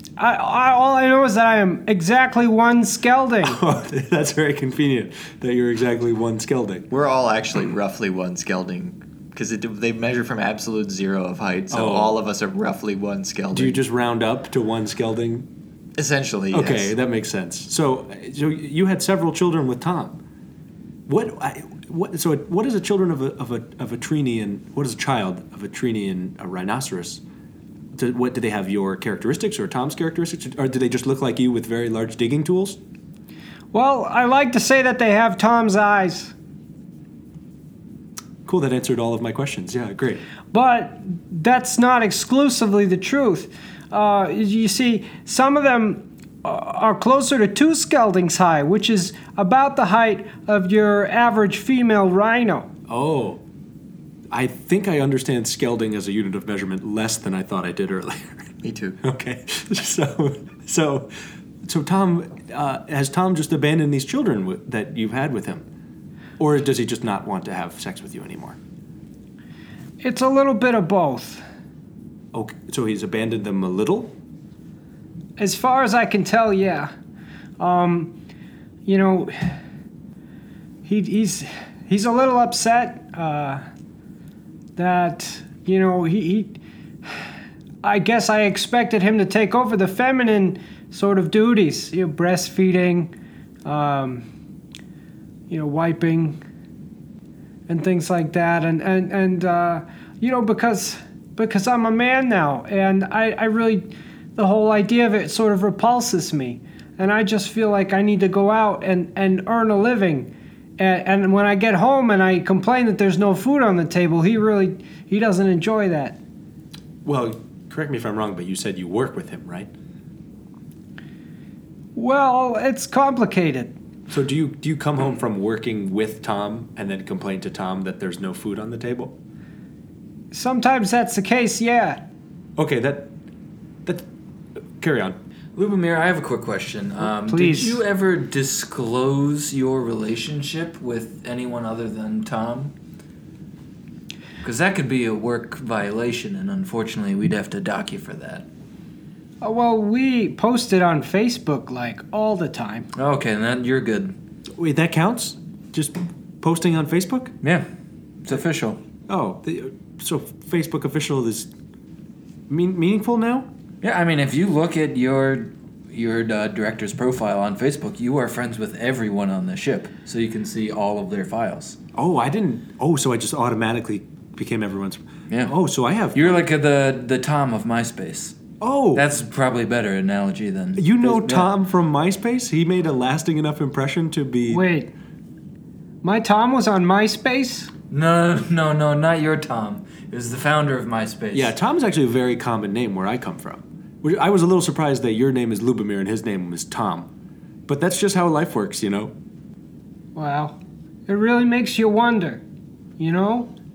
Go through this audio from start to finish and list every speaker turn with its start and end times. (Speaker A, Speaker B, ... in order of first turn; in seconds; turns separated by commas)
Speaker A: 0.2-3.6, Speaker B: 3.4-6.9, Speaker C: 6.9-13.8, Speaker B: 11.7-12.1, Speaker B: 13.5-15.5, Speaker C: 16.0-16.9, Speaker B: 16.5-20.2, Speaker B: 21.1-27.2, Speaker B: 27.9-32.8, Speaker A: 33.7-36.3, Speaker B: 38.5-40.2, Speaker A: 40.5-52.7, Speaker B: 52.9-53.4, Speaker B: 54.3-58.5, Speaker C: 58.6-59.0, Speaker B: 59.0-61.1, Speaker B: 61.6-65.6, Speaker B: 66.4-68.6, Speaker A: 70.0-71.4, Speaker B: 72.3-74.1, Speaker A: 75.4-76.9, Speaker A: 77.6-78.1, Speaker A: 78.9-79.6, Speaker A: 80.8-83.6, Speaker A: 84.8-86.6, Speaker A: 87.8-93.1, Speaker A: 93.6-94.2, Speaker A: 95.5-96.4, Speaker A: 97.7-116.2, Speaker B: 117.0-119.7, Speaker A: 122.0-123.7, Speaker B: 124.1-129.1, Speaker A: 130.3-132.0, Speaker B: 132.6-133.1, Speaker B: 134.8-135.2, Speaker D: 135.5-142.7, Speaker A: 137.0-137.8, Speaker D: 144.4-148.5, Speaker A: 149.4-152.9, Speaker D: 152.9-154.2, Speaker B: 154.6-157.3, Speaker D: 157.4-157.7, Speaker D: 158.2-158.8, Speaker B: 159.1-161.5, Speaker B: 162.5-163.5, Speaker D: 163.8-171.8, Speaker B: 171.9-176.4, Speaker D: 175.3-175.5, Speaker D: 176.1-181.5, Speaker B: 178.6-179.1, Speaker B: 180.8-184.6, Speaker A: 184.5-184.9, Speaker A: 186.0-187.7, Speaker D: 187.9-191.5, Speaker B: 191.3-197.1, Speaker B: 197.7-199.1, Speaker A: 200.1-202.4, Speaker A: 203.0-203.5